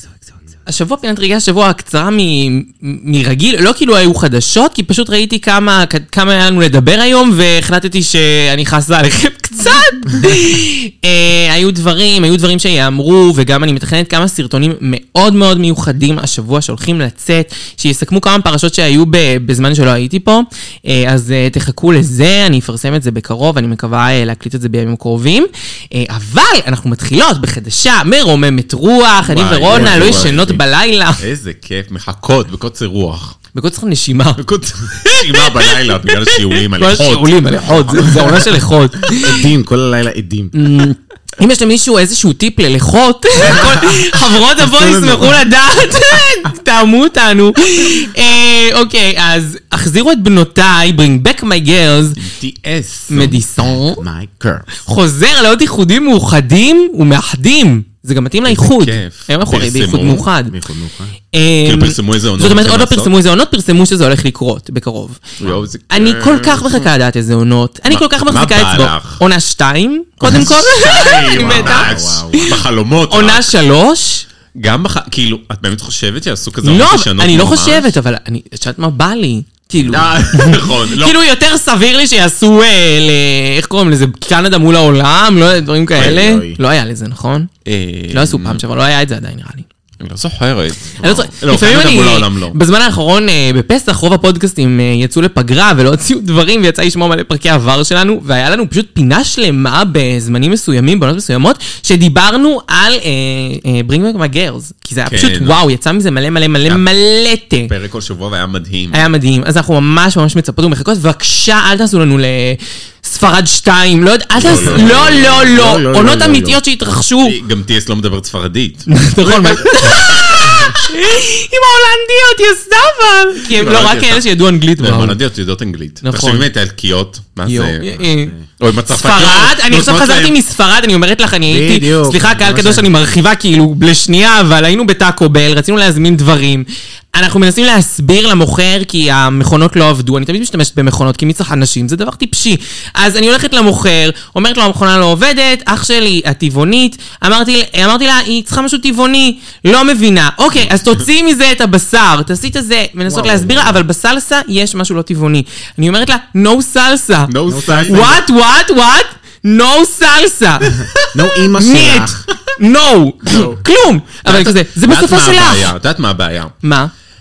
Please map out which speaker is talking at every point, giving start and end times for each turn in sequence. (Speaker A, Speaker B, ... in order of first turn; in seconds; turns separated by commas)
Speaker A: 0.7-31.2, Speaker B: 29.2-30.6, Speaker C: 29.7-30.5, Speaker B: 31.2-33.4, Speaker A: 33.5-34.4, Speaker B: 34.4-38.5, Speaker A: 35.0-39.5, Speaker C: 39.2-40.5, Speaker A: 40.5-52.2, Speaker C: 43.4-44.1, Speaker C: 44.8-45.3, Speaker B: 52.2-53.4, Speaker A: 53.1-54.0, Speaker C: 53.9-54.8, Speaker A: 54.8-60.5, Speaker B: 58.5-60.3, Speaker C: 60.5-61.2, Speaker A: 61.3-65.2, Speaker B: 61.6-63.1, Speaker B: 65.4-66.9, Speaker A: 65.9-74.3, Speaker B: 67.9-69.2, Speaker B: 70.2-73.5, Speaker C: 70.2-72.5, Speaker B: 74.6-77.9, Speaker A: 76.6-87.5, Speaker B: 79.8-81.2, Speaker C: 79.9-80.5, Speaker C: 86.0-86.6, Speaker B: 87.7-88.6, Speaker A: 88.1-89.7, Speaker B: 90.0-92.6, Speaker A: 91.0-107.7, Speaker B: 105.1-105.6, Speaker B: 107.7-109.0, Speaker A: 108.9-117.4, Speaker B: 114.4-115.5, Speaker C: 114.4-116.6, Speaker B: 117.2-120.2, Speaker A: 118.9-125.2, Speaker B: 123.5-124.3, Speaker B: 124.8-127.9, Speaker A: 126.0-126.5, Speaker A: 127.5-128.3, Speaker C: 128.0-128.4, Speaker B: 128.6-130.3, Speaker A: 128.9-157.3, Speaker C: 131.5-132.9, Speaker C: 153.1-153.8, Speaker B: 157.3-158.2, Speaker C: 157.5-158.2, Speaker A: 157.9-160.8, Speaker C: 161.1-162.3, Speaker A: 161.5-165.7, Speaker B: 163.3-163.6, Speaker B: 164.2-166.6, Speaker A: 166.6-166.9